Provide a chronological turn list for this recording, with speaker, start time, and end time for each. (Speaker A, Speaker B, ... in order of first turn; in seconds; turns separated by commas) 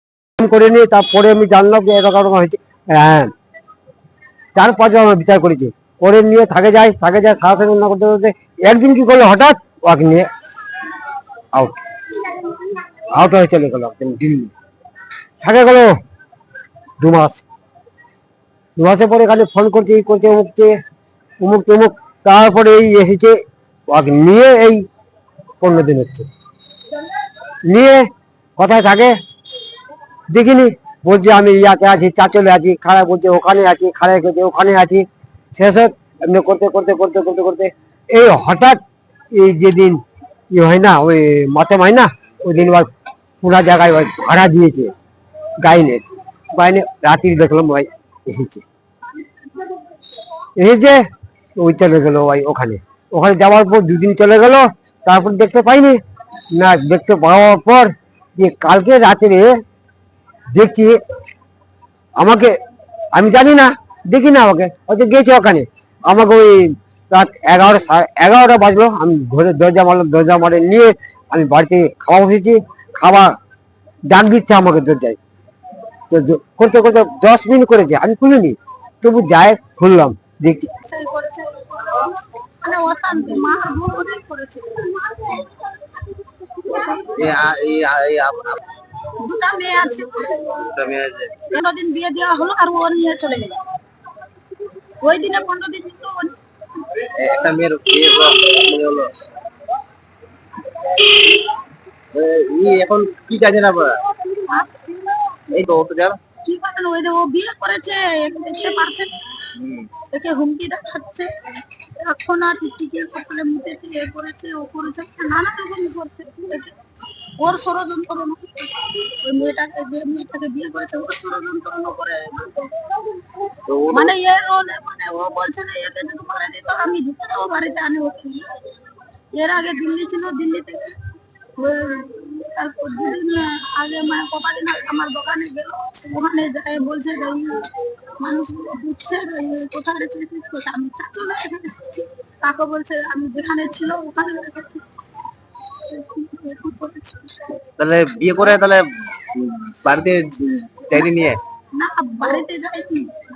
Speaker A: 0.4-3.3, Speaker A: 4.5-10.3, Speaker A: 11.5-11.8, Speaker A: 13.1-14.5, Speaker A: 15.4-15.9, Speaker A: 17.0-17.4, Speaker A: 18.8-20.8, Speaker A: 21.4-23.4, Speaker A: 23.9-24.8, Speaker A: 25.6-26.3, Speaker A: 27.7-28.1, Speaker A: 28.6-29.1, Speaker A: 30.3-38.8, Speaker A: 39.3-40.0, Speaker A: 40.5-42.9, Speaker A: 43.4-44.9, Speaker A: 45.6-48.6, Speaker A: 50.6-51.0, Speaker A: 51.6-56.0, Speaker A: 56.5-59.5, Speaker A: 60.5-61.0, Speaker A: 62.2-62.5, Speaker A: 63.1-73.3, Speaker A: 74.1-75.2, Speaker A: 76.1-80.7, Speaker B: 80.8-85.5, Speaker B: 86.7-87.1, Speaker C: 87.2-88.6, Speaker B: 89.2-90.7, Speaker C: 90.7-91.3, Speaker B: 91.5-93.6, Speaker B: 95.0-96.4, Speaker C: 97.2-99.1, Speaker C: 102.1-103.9, Speaker B: 104.5-104.7, Speaker C: 105.5-106.2, Speaker B: 106.4-109.2, Speaker C: 109.6-109.8, Speaker B: 110.1-111.3, Speaker B: 112.0-116.8, Speaker B: 117.4-122.7, Speaker C: 123.7-124.1, Speaker B: 123.9-128.5, Speaker B: 129.3-131.0, Speaker B: 131.6-137.7, Speaker B: 138.2-144.8, Speaker B: 145.9-147.5, Speaker C: 147.8-151.4, Speaker B: 151.8-153.1